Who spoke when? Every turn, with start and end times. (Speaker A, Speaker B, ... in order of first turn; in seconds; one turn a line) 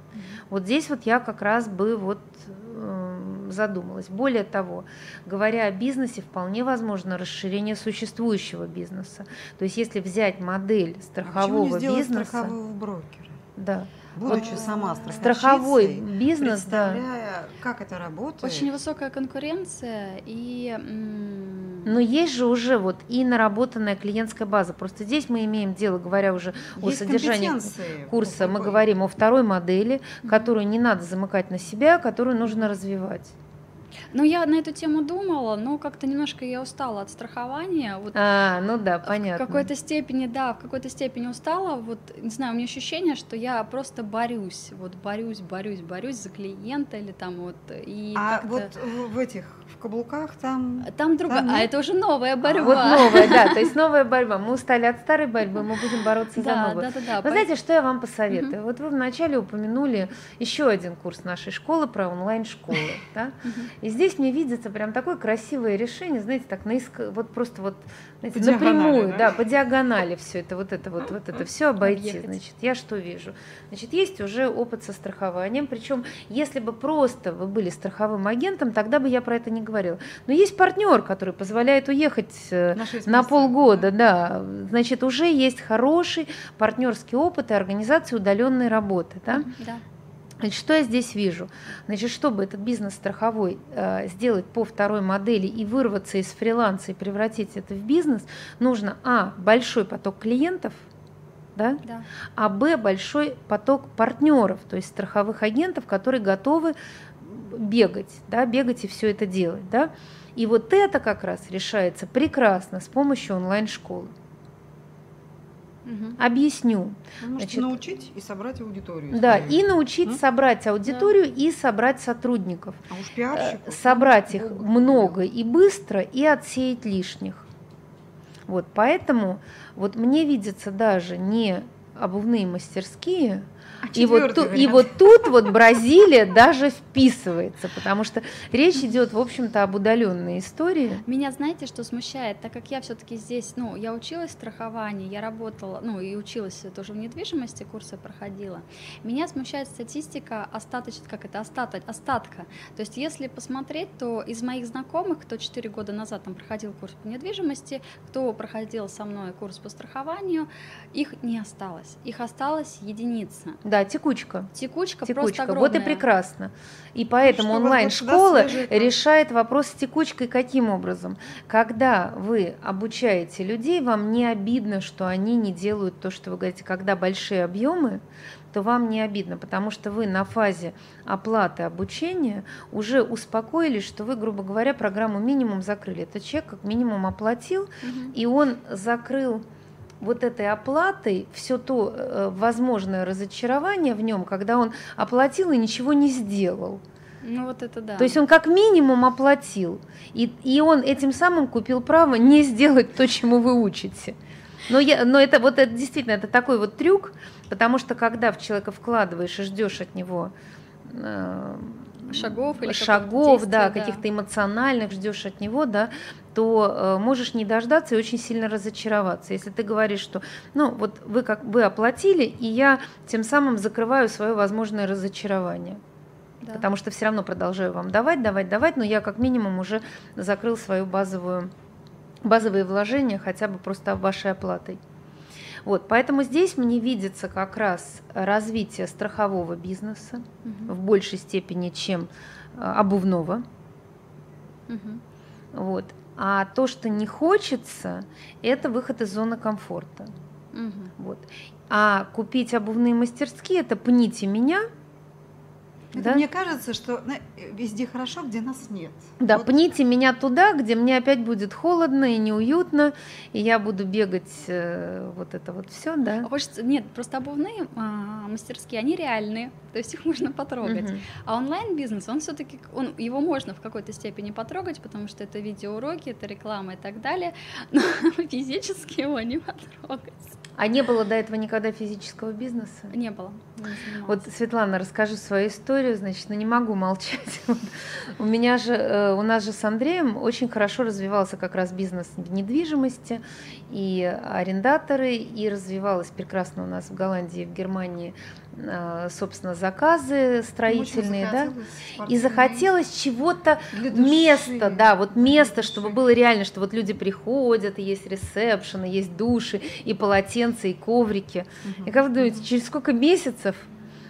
Speaker A: 0.1-0.4
Speaker B: 0.5-12.5
Speaker C: 11.2-13.4
Speaker B: 13.6-14.6
Speaker C: 14.1-18.7
Speaker A: 14.2-15.3
Speaker B: 15.2-17.0
Speaker A: 18.4-21.9
Speaker B: 21.8-33.3
Speaker C: 26.8-28.9
Speaker A: 30.2-30.5
Speaker A: 34.1-38.2
Speaker B: 38.1-39.7
Speaker A: 39.0-48.7
Speaker C: 48.1-51.7
Speaker A: 50.8-53.7
Speaker C: 52.4-53.3
Speaker B: 52.6-89.5
Speaker A: 56.3-57.5
Speaker A: 63.4-63.7
Speaker C: 68.3-69.4
Speaker A: 71.8-72.3
Speaker C: 82.7-83.9
Speaker A: 89.3-89.8
Speaker B: 90.4-100.8
Speaker B: 101.5-101.8
Speaker B: 102.3-114.1
Speaker A: 115.8-116.2
Speaker B: 116.2-117.7
Speaker C: 117.2-120.2
Speaker B: 119.1-122.8
Speaker C: 122.9-125.1
Speaker B: 123.3-127.4
Speaker B: 128.5-141.0
Speaker C: 133.8-134.9
Speaker A: 141.1-163.6
Speaker B: 163.6-164.5
Speaker A: 164.5-166.1
Speaker B: 165.0-189.4
Speaker C: 167.2-168.9
Speaker A: 187.8-188.1
Speaker B: 190.0-196.8
Speaker A: 197.2-198.2
Speaker B: 198.0-204.2
Speaker B: 204.7-210.3
Speaker B: 210.8-225.8
Speaker A: 212.1-214.0
Speaker A: 226.4-226.7
Speaker B: 226.5-231.5
Speaker B: 232.2-234.8
Speaker B: 235.6-243.4
Speaker A: 240.4-240.7
Speaker A: 244.7-245.0
Speaker B: 245.5-250.1
Speaker A: 250.5-250.9
Speaker B: 251.0-254.6
Speaker C: 255.9-259.5
Speaker B: 255.9-256.2
Speaker B: 259.2-266.3
Speaker A: 266.2-280.4
Speaker B: 270.6-271.0
Speaker B: 280.6-282.9
Speaker A: 282.9-284.2
Speaker B: 284.1-301.5
Speaker C: 300.7-302.7
Speaker B: 302.1-313.7
Speaker C: 303.7-306.0
Speaker C: 311.6-312.4